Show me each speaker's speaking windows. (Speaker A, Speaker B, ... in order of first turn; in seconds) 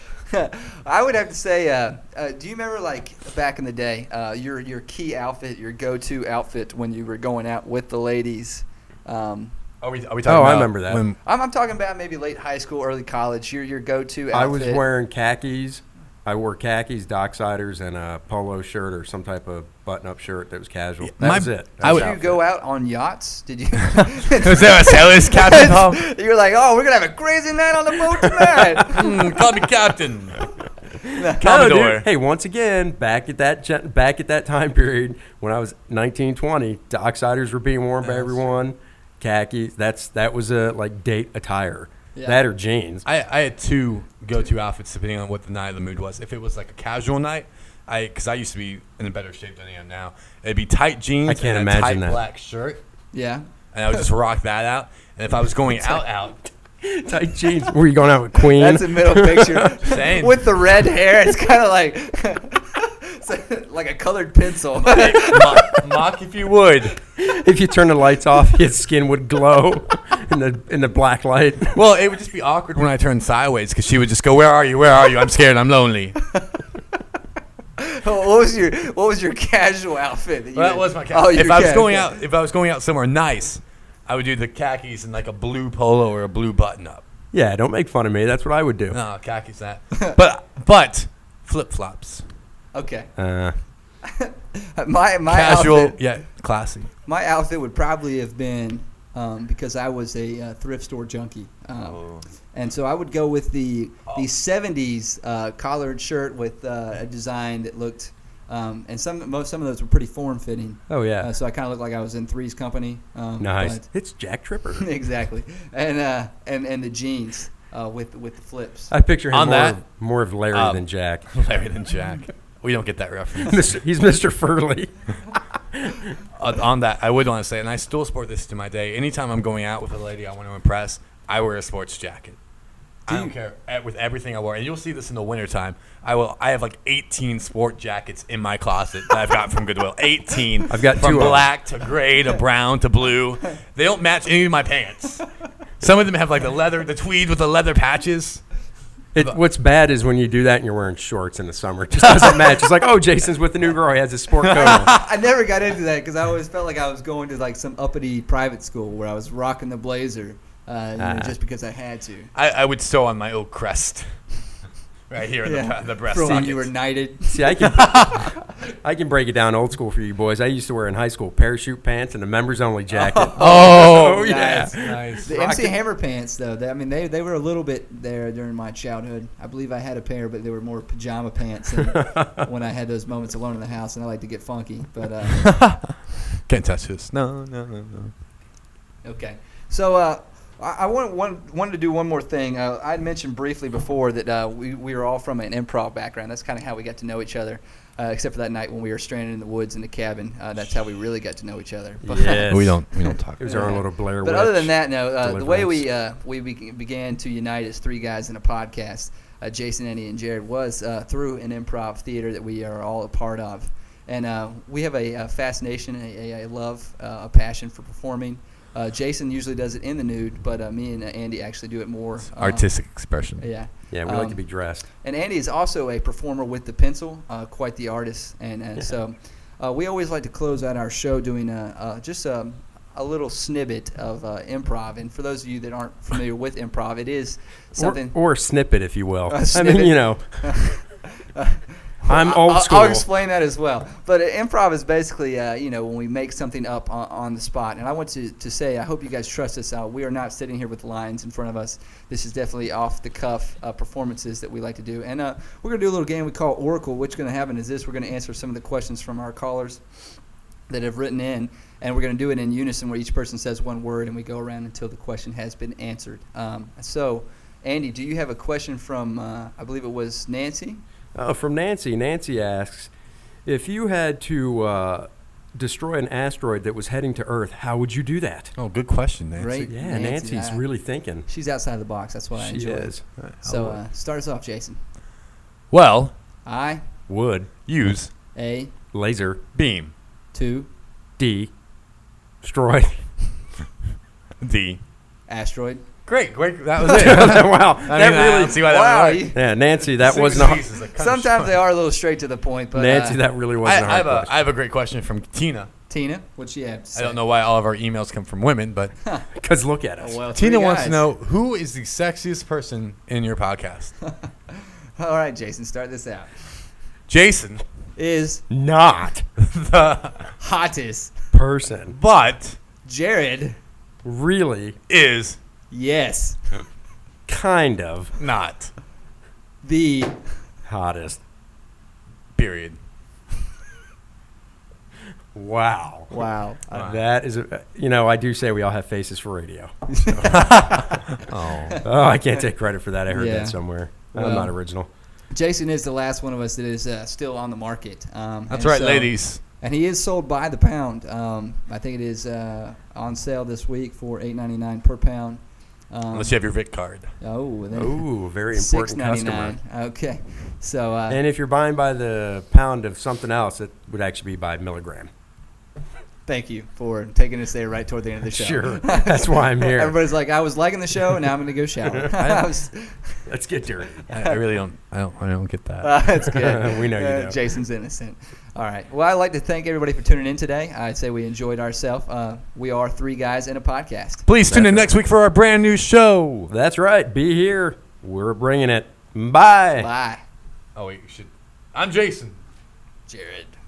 Speaker A: 0.3-9.5, 11.2-14.8, 21.8-29.2, 31.1-31.4, 38.0-38.4, 42.1-42.4, 53.1-54.0, 58.4-65.8, 77.8-82.2, 92.7-93.1, 94.0-96.0, 97.0-113.9, 114.8-118.9, 133.1-133.3, 154.5-162.3, 165.4-167.7, 172.9-185.6, 189.0-202.5, 203.0-238.1, 239.3-259.8, 260.7-270.8, 279.4-280.6, 281.3-284.8, 286.4-286.8, 288.3-288.7, 290.3-290.7, 295.3-295.8, 298.6-299.4, 300.3-303.2, 305.9-307.2, 310.0-311.0, 315.0-316.6, 317.9-318.4, 320.4-321.1, 322.8-323.6, 325.7-326.5, 329.6-330.2, 336.1-336.8, 339.9-341.8, 343.1-344.5, 345.3-356.5, 357.2-361.2, 366.2-373.1, 375.8-384.2, 389.8-390.2, 393.1-393.5
Speaker B: 9.8-11.2, 21.0-22.1, 24.0-26.0, 28.9-30.4, 31.4-32.1, 43.0-52.8, 53.7-56.4, 59.8-60.4, 64.9-67.0, 71.7-76.2, 80.5-87.0, 88.9-92.2, 95.3-96.9, 101.8-102.2, 119.3-119.8, 120.5-123.7, 126.3-132.4, 133.1-145.2, 145.8-148.4, 152.1-152.4, 154.6-155.0, 162.3-164.1, 165.1-166.7, 167.6-168.3, 173.3-175.3, 185.3-188.1, 202.5-203.7, 222.2-223.5, 278.6-279.7, 283.2-283.8, 285.7-286.1, 287.7-288.1, 289.5-289.9, 294.4-294.8, 296.1-299.3, 299.9-301.6, 303.6-305.7, 306.9-308.9, 310.3-313.9, 317.1-317.6, 319.4-320.3, 321.9-322.6, 324.9-325.4, 328.2-328.7, 332.4-332.8, 336.7-337.0, 340.4-341.8, 348.5-349.4, 356.1-357.1, 372.1-372.5, 374.1-375.9, 384.2-386.5, 390.8-392.4
Speaker C: 10.2-11.0, 14.3-22.4, 31.4-43.0, 51.2-52.2, 56.8-59.8, 67.1-71.8, 87.3-89.0, 93.2-93.5, 110.9-111.3, 113.4-114.9, 118.9-121.3, 123.4-126.0, 140.7-141.5, 149.1-155.0, 161.0-161.3, 167.2-168.3, 168.8-175.7, 202.0-202.8, 203.4-205.9, 223.9-224.8, 237.8-240.3, 242.1-243.1, 271.1-272.9, 273.4-278.5, 279.7-281.3, 282.3-283.0, 287.1-287.5, 288.9-289.4, 291.2-291.5, 292.4-293.0, 296.8-298.6, 299.3-300.6, 302.7-304.4, 309.4-310.2, 318.5-319.2, 321.3-322.0, 324.0-324.8, 327.3-328.1, 330.6-331.2, 335.3-341.0, 341.8-344.9, 357.7-359.6, 361.1-365.1, 368.3-370.0, 373.3-374.0, 376.4-377.4, 384.5-384.9, 386.5-389.9